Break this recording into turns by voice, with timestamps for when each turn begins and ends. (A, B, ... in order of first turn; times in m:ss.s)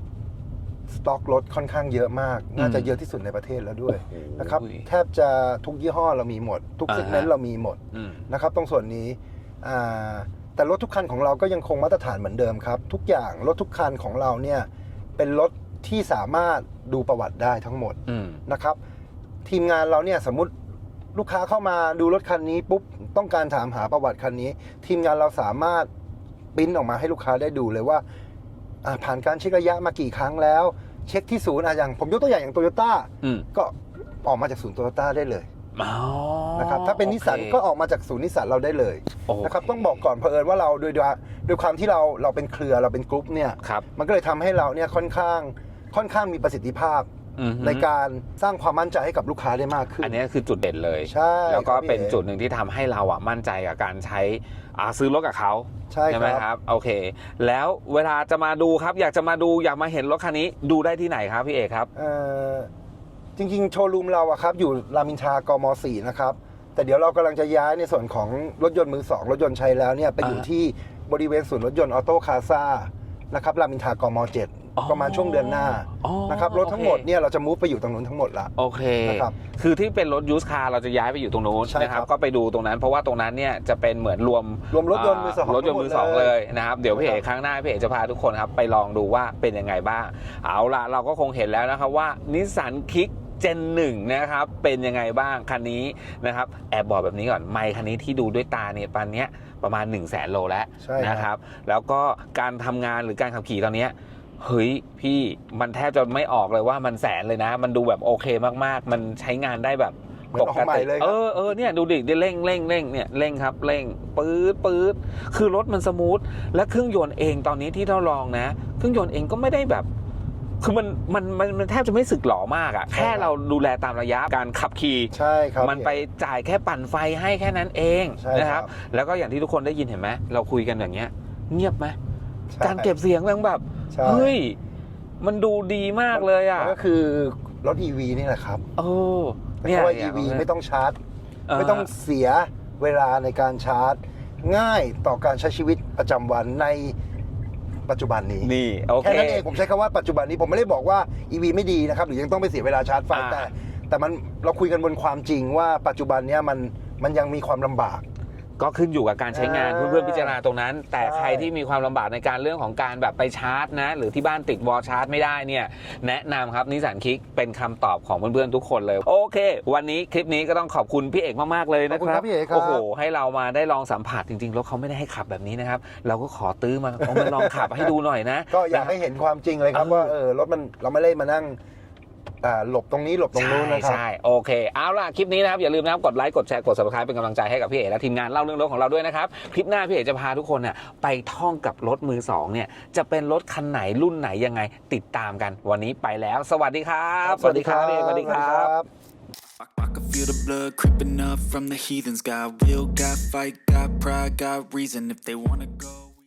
0:00.9-0:18.8 A
0:02.6-0:03.0 B
0:03.9-0:04.9 B
0:06.9-0:07.3 B
0:07.9-0:08.2 B
0:18.1-0:18.4 B
0:19.4-0:20.5 A
0:21.1-0:25.9 A
0:26.6-0:28.0 A
0:28.8-0:35.5 A
0:35.8-0:37.6 B
0:36.6-0:47.1 A
0:39.3-0:40.1 B
0:47.4-0:47.9 B
0:47.6-0:50.2 A
0:50.0-1:01.9 B
0:51.1-0:52.2 A
0:55.9-0:56.5 A
1:02.0-1:02.7 A
1:03.4-1:18.5 A
1:14.8-1:17.1 B
1:18.6-1:59.9 B
1:19.0-1:19.4 A
1:21.7-1:22.1 A
1:24.7-1:26.4 A
1:26.9-1:27.2 A
1:40.8-1:41.3 A
1:50.3-1:51.2 A
2:00.6-2:12.0 B
2:02.9-2:03.3 A
2:05.1-2:06.0 A
2:08.2-2:08.7 A
2:12.5-2:12.9 A
2:12.6-2:14.6 B
2:13.9-2:14.4 A
2:15.2-2:16.8 B
2:16.1-2:18.6 A
2:18.8-2:20.5 B
2:19.6-2:21.0 A
2:21.5-2:21.9 B
2:21.6-2:27.0 A
2:27.9-2:38.0 A
2:28.4-2:29.5 B
2:33.1-2:33.5 B
2:38.6-2:59.0 B
2:39.3-2:40.4 A
2:41.0-2:41.5 A
2:51.9-2:52.8 A
2:57.0-2:57.9 A
2:58.5-3:01.6 A
2:59.7-3:00.1 B
3:02.4-3:04.0 A
3:03.3-3:18.7 B
3:17.2-3:18.9 A
3:19.6-3:26.2 C